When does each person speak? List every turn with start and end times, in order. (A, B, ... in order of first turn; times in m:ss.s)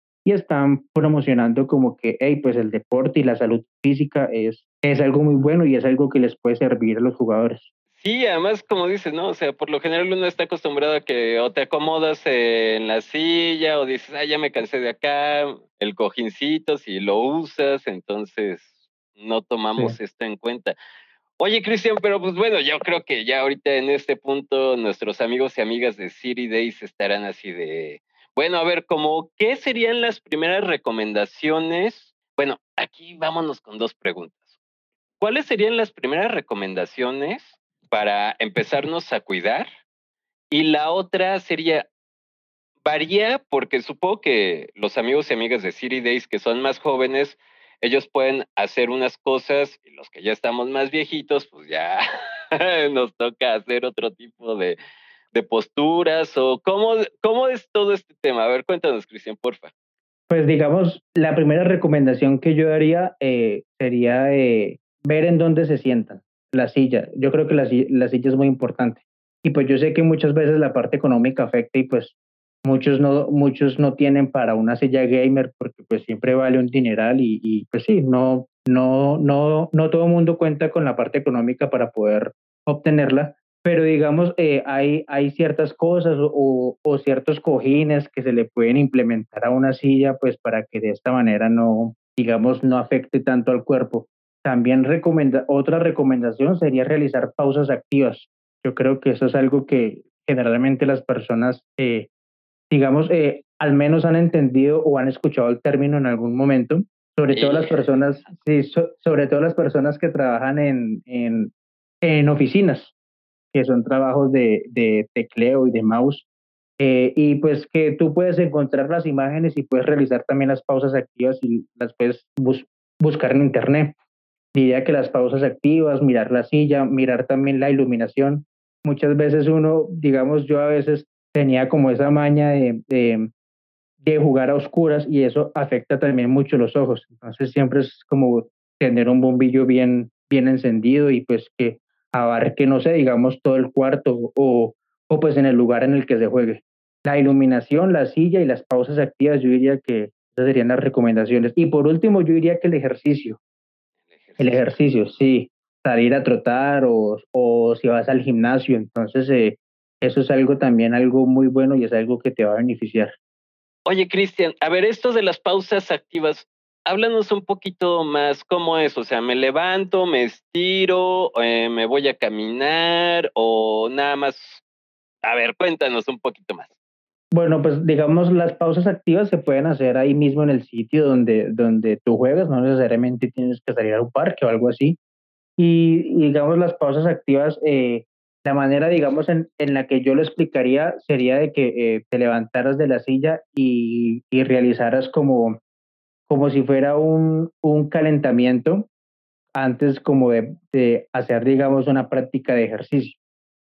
0:00.2-0:07.7 A
0:08.0-0:20.7 B
0:21.4-0:34.4 B
0:35.2-0:39.7 B
0:40.5-0:41.8 B
0:42.8-0:52.0 B
0:52.5-0:54.8 B
0:55.3-0:59.7 B
1:00.3-1:42.1 A
1:42.7-1:51.5 A
1:47.3-1:47.9 B
1:52.0-1:52.9 A
1:53.5-1:56.2 A
1:56.8-2:03.9 A
2:04.5-2:13.3 A
2:14.0-2:33.4 A
2:34.2-2:34.6 B
2:34.4-2:43.1 A
2:43.8-2:54.6 B
2:55.2-2:56.7 B
2:57.3-3:05.0 A
3:05.6-3:15.6 A
3:16.3-3:18.9 A
3:19.6-3:23.2 A